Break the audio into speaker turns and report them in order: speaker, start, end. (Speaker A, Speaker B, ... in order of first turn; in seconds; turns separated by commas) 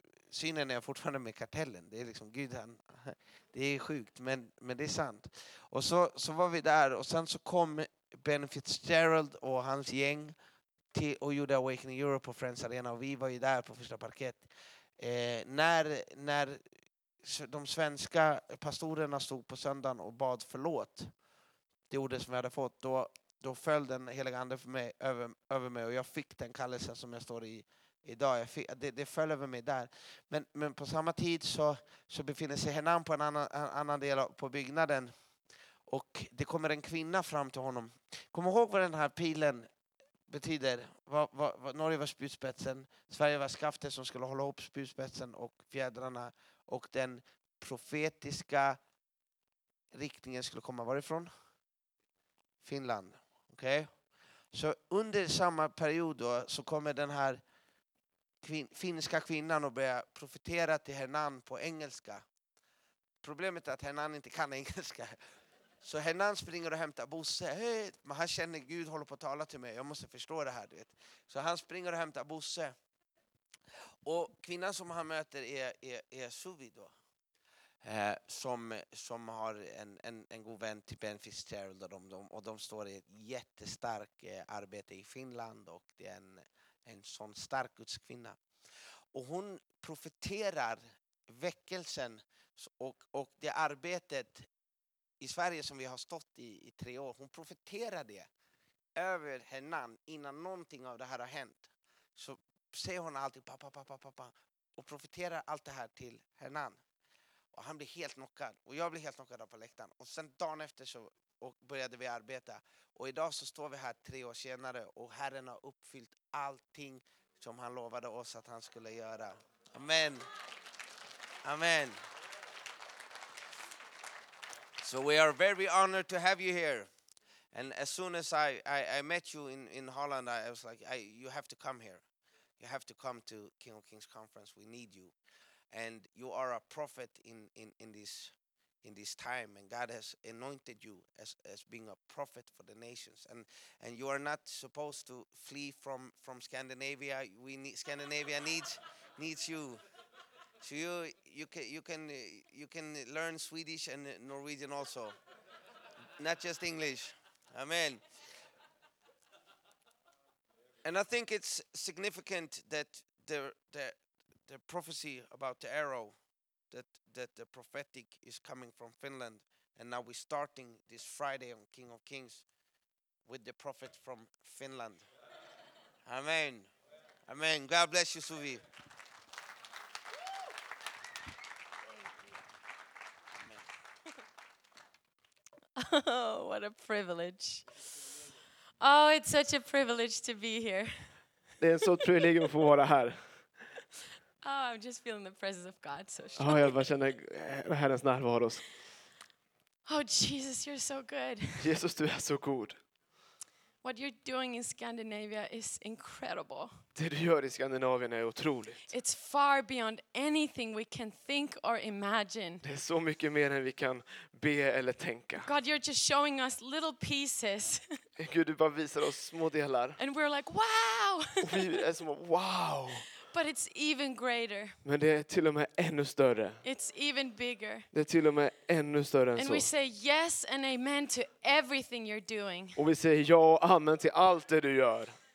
Speaker A: 0.3-10.3, Speaker A: 10.9-14.5, Speaker A: 15.0-16.6, Speaker A: 17.2-21.1, Speaker A: 21.9-35.1, Speaker A: 35.9-39.7, Speaker A: 40.3-48.8, Speaker A: 49.9-51.3, Speaker A: 52.6-53.9, Speaker A: 54.5-57.4, Speaker A: 58.4-62.2, Speaker A: 63.2-65.2, Speaker A: 65.8-72.7, Speaker A: 74.0-76.9, Speaker A: 77.8-88.4, Speaker A: 89.1-94.5, Speaker A: 95.2-98.3, Speaker A: 99.0-106.8, Speaker A: 107.5-120.3, Speaker A: 121.4-122.0, Speaker A: 124.8-126.9, Speaker A: 127.5-132.0, Speaker A: 132.6-135.1, Speaker A: 135.7-149.8, Speaker A: 150.6-155.2, Speaker A: 156.2-158.0, Speaker A: 160.8-166.2, Speaker A: 166.7-172.4, Speaker A: 173.2-175.1, Speaker A: 176.0-176.7, Speaker A: 177.3-178.6, Speaker B: 185.8-187.6, Speaker B: 188.8-191.1, Speaker C: 191.6-193.2, Speaker B: 194.4-196.8, Speaker C: 196.4-198.6, Speaker B: 199.8-201.7, Speaker C: 201.6-202.8, Speaker B: 203.8-206.7, Speaker C: 206.9-208.8, Speaker B: 208.9-212.6, Speaker C: 212.6-215.5, Speaker B: 215.4-218.0, Speaker C: 218.2-220.0, Speaker B: 220.0-221.7, Speaker C: 221.4-223.1, Speaker B: 223.2-224.8, Speaker C: 224.8-226.6, Speaker B: 226.6-227.9, Speaker C: 227.9-229.7, Speaker B: 229.4-232.8, Speaker C: 232.8-235.2